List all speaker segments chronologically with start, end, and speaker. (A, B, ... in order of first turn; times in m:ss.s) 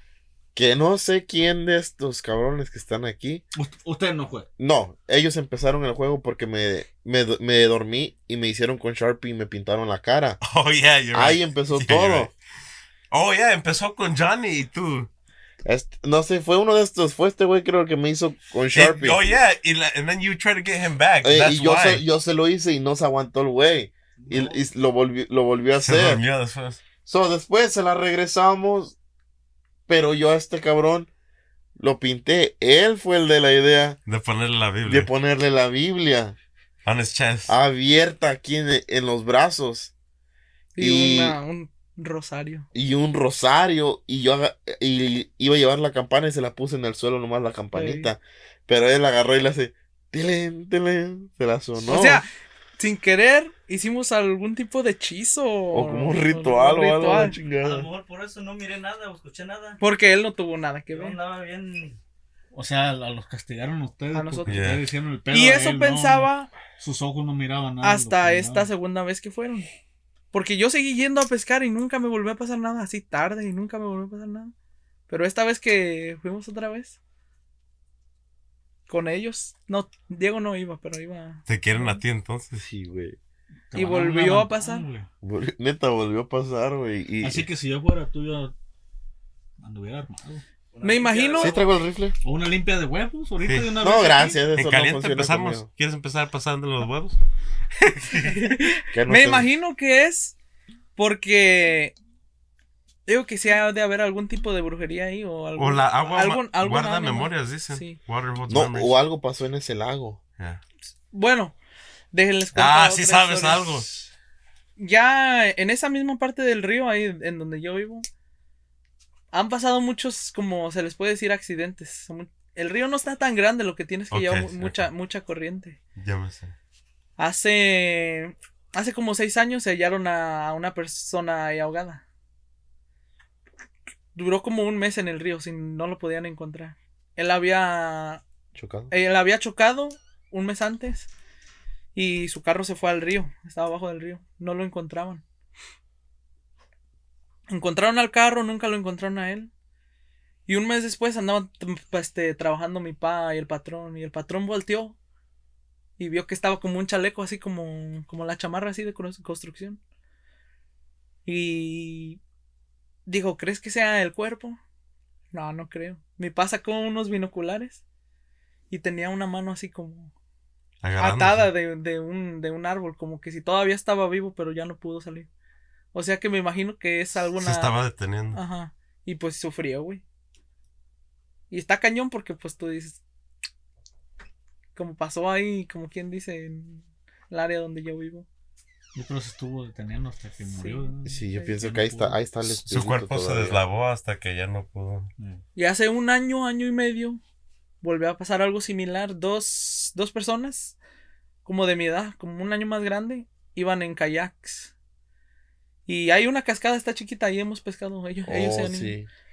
0:00.6-0:03.4 A
0:03.6-0:04.5 B
0:04.6-0:10.4 A
0:10.4-0:12.3 C
0:11.1-0:12.3 A
0:13.1-0:15.1 C
0:15.6-0:19.2 A
0:18.7-0:22.0 C
0:21.2-0:26.2 A
0:24.2-0:24.6 D
0:25.8-0:26.8 C
0:27.0-0:29.0 A
0:29.9-0:31.1 A
0:31.8-0:34.0 A
0:34.1-0:35.1 C
0:34.9-0:36.4 A
0:36.8-0:37.6 C
0:37.5-0:39.9 A
0:40.8-0:42.7 E
0:40.8-0:41.4 A
0:42.7-0:52.2 A
0:47.7-0:48.1 E
0:51.8-0:52.3 E
0:52.8-0:57.4 E
0:55.7-0:57.9 A
0:57.6-0:59.8 D
0:59.8-1:01.2 E
1:00.9-1:02.0 D
1:02.5-1:08.7 B
1:04.1-1:06.5 E
1:04.5-1:04.8 C
1:07.8-1:09.7 E
1:10.3-1:14.5 E
1:15.1-1:17.0 E
1:18.9-1:22.0 E
1:21.5-1:22.6 C
1:22.6-1:23.2 A
1:23.7-1:25.1 B
1:23.8-1:24.9 E
1:25.2-1:27.5 A
1:27.2-1:28.6 B
1:29.6-1:30.4 B
1:30.7-1:31.7 D
1:30.8-1:31.6 E
1:31.4-1:32.2 A
1:32.2-1:34.4 B
1:33.4-1:33.7 C
1:33.8-1:35.7 A
1:34.6-1:37.2 C
1:38.0-1:38.3 C
1:38.1-1:40.4 E
1:38.9-1:39.5 A
1:41.0-1:42.0 E
1:43.1-1:48.0 E
1:45.6-1:49.0 C
1:48.5-1:50.2 A
1:51.1-1:51.6 E
1:52.1-1:53.7 E
1:52.5-1:54.0 C
1:54.8-1:58.1 E
1:59.3-2:05.8 E
2:04.1-2:04.9 C
2:06.0-2:06.5 C
2:07.2-2:12.0 E
2:14.2-2:18.2 E
2:18.6-2:18.9 A
2:18.9-2:21.1 E
2:22.0-2:25.2 E
2:27.5-2:29.5 E
2:30.5-2:35.0 E
2:36.0-2:39.8 E
2:41.3-2:42.2 E
2:43.1-2:44.6 E
2:45.3-2:47.8 E
2:48.7-2:50.1 E
2:50.8-2:51.5 C
2:51.0-2:55.3 E
2:55.9-2:57.7 E
2:57.4-2:58.4 C
2:58.3-3:00.0 E
3:01.5-3:03.0 E
3:04.8-3:08.3 E
3:08.9-3:12.2 B
3:10.5-3:11.5 E
3:11.0-3:13.6 A
3:12.5-3:15.1 C
3:15.2-3:15.4 B
3:15.6-3:17.2 E
3:17.8-3:20.8 E
3:21.4-3:24.7 E
3:25.9-3:29.0 E
3:28.3-3:29.1 A